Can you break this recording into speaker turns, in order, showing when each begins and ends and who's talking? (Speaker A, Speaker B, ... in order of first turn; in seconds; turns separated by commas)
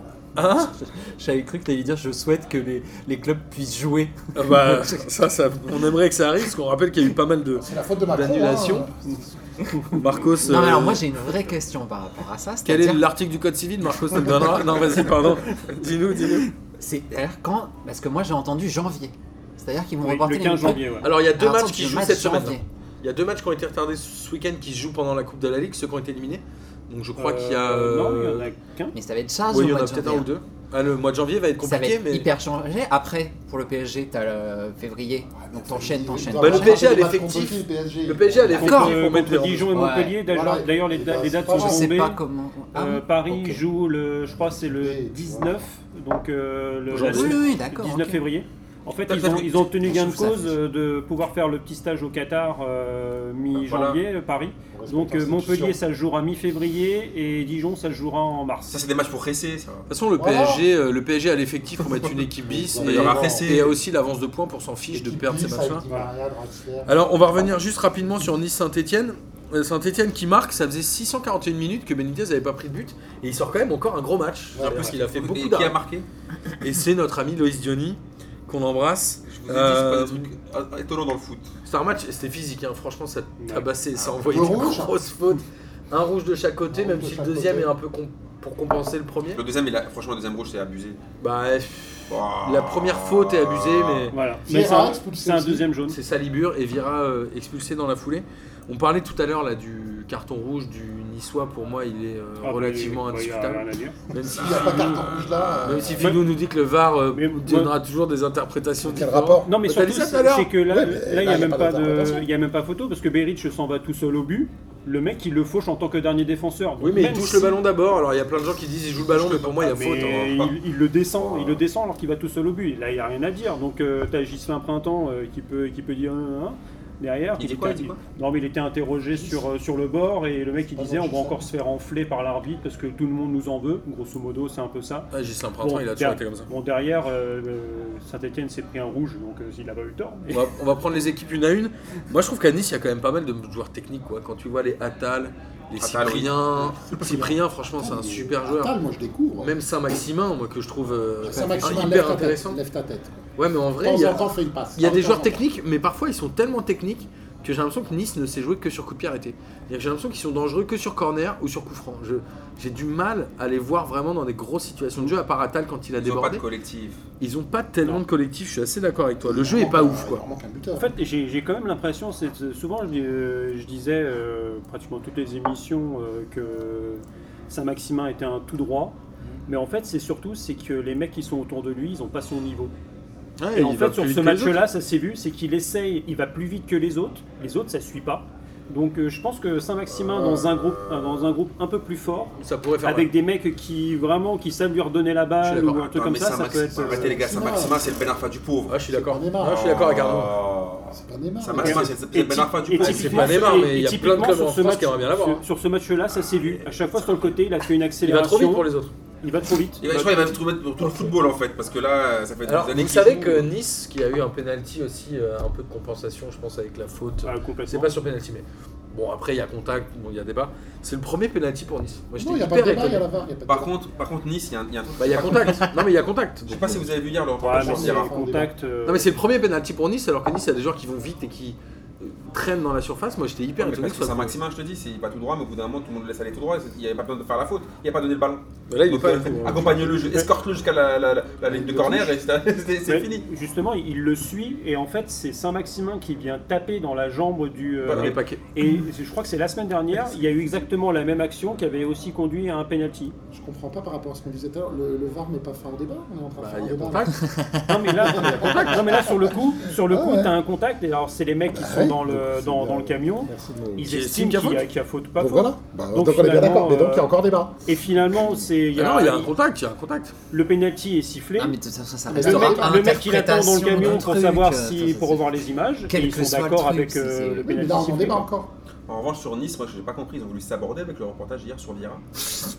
Speaker A: 0.3-0.7, Speaker B: 0.4-5.0, Speaker A: 4.3-8.9, Speaker C: 7.6-9.2, Speaker A: 9.9-11.1, Speaker B: 10.4-13.0, Speaker A: 12.6-16.5, Speaker B: 16.8-22.6, Speaker D: 20.0-21.1, Speaker A: 21.0-28.5, Speaker D: 27.2-28.9, Speaker B: 28.9-30.3, Speaker A: 29.5-32.3, Speaker B: 31.6-36.9, Speaker C: 35.4-38.7, Speaker A: 36.3-39.7, Speaker D: 38.5-42.2, Speaker B: 38.5-39.0, Speaker B: 39.7-40.2, Speaker C: 40.2-41.9, Speaker B: 41.5-43.6, Speaker D: 42.7-58.8, Speaker C: 44.3-45.6, Speaker A: 46.9-47.4, Speaker B: 47.0-48.2, Speaker E: 49.1-49.9, Speaker B: 49.8-50.5, Speaker E: 53.5-54.0, Speaker C: 54.7-55.8, Speaker E: 58.7-59.9, Speaker A: 59.9-65.8, Speaker C: 60.1-60.6, Speaker E: 61.8-62.2, Speaker C: 62.5-63.5, Speaker E: 62.8-63.8, Speaker C: 64.9-67.6, Speaker A: 66.8-75.8, Speaker C: 74.5-74.9, Speaker E: 74.6-76.0, Speaker A: 76.6-80.3, Speaker E: 79.3-81.5, Speaker A: 81.6-89.4, Speaker D: 83.4-83.6, Speaker C: 84.1-85.0, Speaker C: 86.7-87.7, Speaker E: 89.3-91.0, Speaker A: 91.2-94.1, Speaker E: 92.1-94.1, Speaker D: 94.1-96.0, Speaker C: 94.4-95.7, Speaker A: 95.9-110.5, Speaker D: 102.4-104.0, Speaker C: 104.1-106.2, Speaker E: 104.4-105.9, Speaker D: 106.0-106.3, Speaker D: 107.1-107.7, Speaker C: 108.8-109.6, Speaker D: 109.4-117.6, Speaker C: 110.6-112.3, Speaker A: 116.8-120.3, Speaker E: 119.2-120.5, Speaker D: 119.6-140.5, Speaker E: 121.2-121.6, Speaker E: 127.4-128.0, Speaker C: 130.7-131.5, Speaker A: 135.1-136.5, Speaker A: 140.3-148.7, Speaker E: 145.8-146.7, Speaker C: 146.6-149.5, Speaker A: 149.4-152.6, Speaker C: 151.2-155.4, Speaker A: 153.4-166.4, Speaker E: 166.0-167.0, Speaker A: 167.2-170.2, Speaker C: 169.2-170.9, Speaker D: 170.8-179.0, Speaker D: 179.5-182.7, Speaker A: 183.4-184.6, Speaker D: 183.5-197.2, Speaker A: 192.4-193.1, Speaker A: 195.4-195.8, Speaker E: 195.7-198.8, Speaker C: 196.8-197.9, Speaker A: 198.7-200.4, Speaker C: 198.9-199.9, Speaker E: 199.6-203.7, Speaker C: 200.9-201.9, Speaker D: 201.6-208.7, Speaker A: 202.8-205.4, Speaker E: 206.2-207.3, Speaker A: 208.0-208.9, Speaker D: 209.2-211.0, Speaker E: 209.8-213.5, Speaker A: 212.4-223.1, Speaker D: 217.2-217.9, Speaker C: 222.2-223.7, Speaker E: 223.5-225.7, Speaker A: 225.0-226.9, Speaker E: 226.4-228.1, Speaker D: 227.4-229.1, Speaker C: 227.5-228.5, Speaker A: 228.8-234.3, Speaker E: 233.6-243.2, Speaker A: 238.7-240.1, Speaker C: 241.4-242.1, Speaker D: 242.8-253.1, Speaker E: 247.8-248.1, Speaker A: 247.9-248.4, Speaker C: 253.3-257.2, Speaker A: 256.4-257.3, Speaker D: 257.6-267.1, Speaker C: 258.1-259.1, Speaker A: 258.2-259.1, Speaker C: 259.7-260.3, Speaker C: 261.5-263.9, Speaker A: 263.9-264.6, Speaker C: 265.2-267.6, Speaker D: 267.6-269.3, Speaker A: 268.7-270.1, Speaker D: 270.3-271.6, Speaker B: 271.4-275.3, Speaker C: 272.1-272.9, Speaker D: 272.1-278.3, Speaker B: 275.9-277.8, Speaker C: 277.4-278.5, Speaker E: 278.9-282.0